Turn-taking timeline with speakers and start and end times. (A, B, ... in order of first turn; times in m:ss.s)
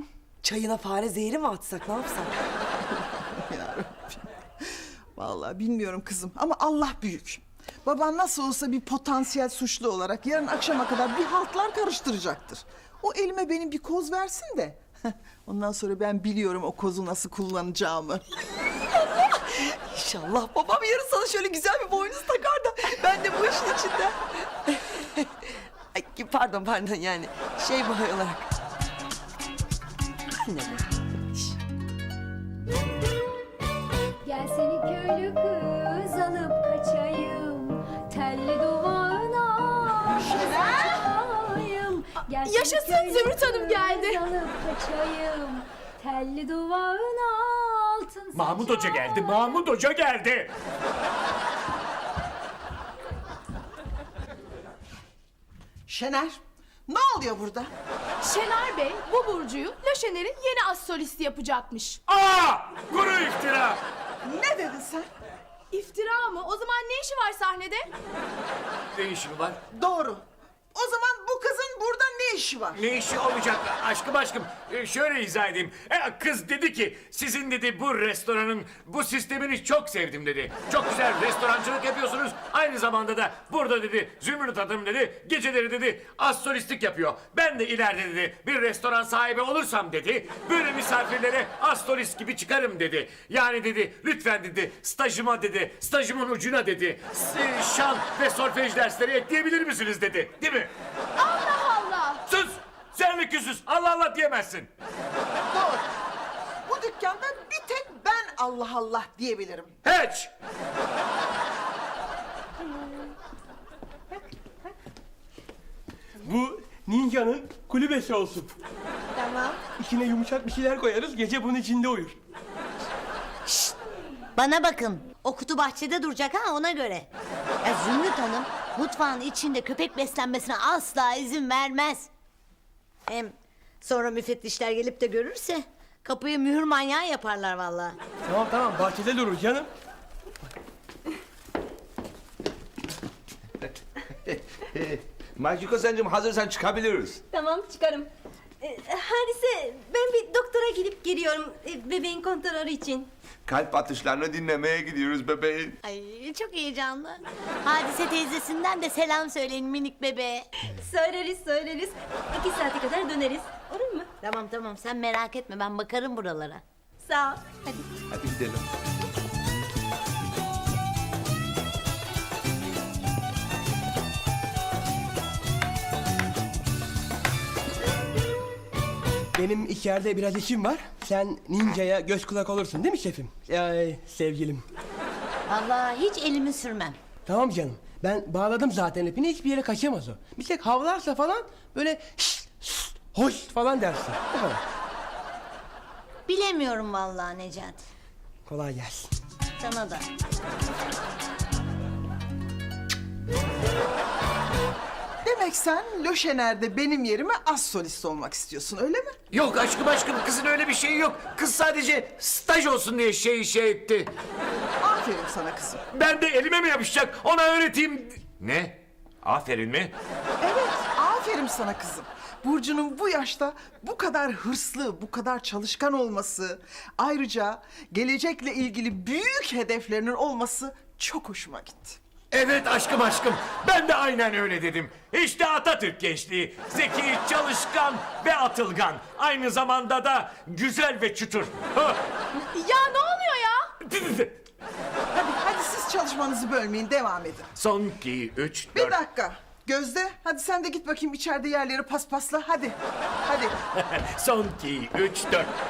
0:00.4-0:02.3 A
0:03.0-0:14.8 B
0:15.4-0:18.2 B
0:20.0-0:22.7 A
0:26.1-0:28.4 A
0:34.2-0:49.6 C
0:40.3-0:40.8 D
0:42.4-0:44.2 E
0:48.3-0:50.5 F
0:55.9-0:57.7 B
0:58.2-1:02.0 E
1:02.1-1:03.8 F
1:04.2-1:05.1 B
1:05.7-1:07.9 E
1:08.9-1:09.6 F
1:09.7-1:10.2 B
1:10.7-1:12.8 B
1:12.7-1:40.7 F
1:41.2-1:42.2 E
1:42.3-1:44.7 F
1:45.5-1:45.9 B
1:46.6-1:49.7 B
1:49.8-1:50.3 F
1:56.2-1:58.5 G
1:59.2-1:59.6 H
1:59.7-2:02.2 G
2:03.5-2:03.8 D
2:04.4-2:07.1 D
2:07.6-2:12.1 D
2:13.1-2:18.0 D
2:18.2-2:19.7 G
2:24.3-2:27.2 I
2:27.3-2:28.1 H
2:28.6-2:33.1 H
2:33.5-2:35.8 I
2:35.8-2:40.5 D
2:40.8-2:44.0 H
2:44.2-2:46.6 D
2:47.0-2:47.8 H
2:48.1-2:48.7 I
2:59.3-3:04.6 G
3:05.5-3:07.0 D
3:07.2-3:14.6 G
3:16.3-3:17.8 D
3:18.4-3:19.1 G
3:19.6-3:20.0 D
3:25.2-3:29.1 B
3:29.3-3:34.1 F
3:34.8-3:35.8 B
3:35.9-3:39.9 F
3:40.4-3:52.0 B
3:52.3-4:02.0 F
4:02.5-4:03.7 E
4:03.8-4:04.3 F
4:05.1-4:07.5 B
4:07.6-4:09.0 F
4:08.7-4:13.5 B
4:13.7-4:15.5 F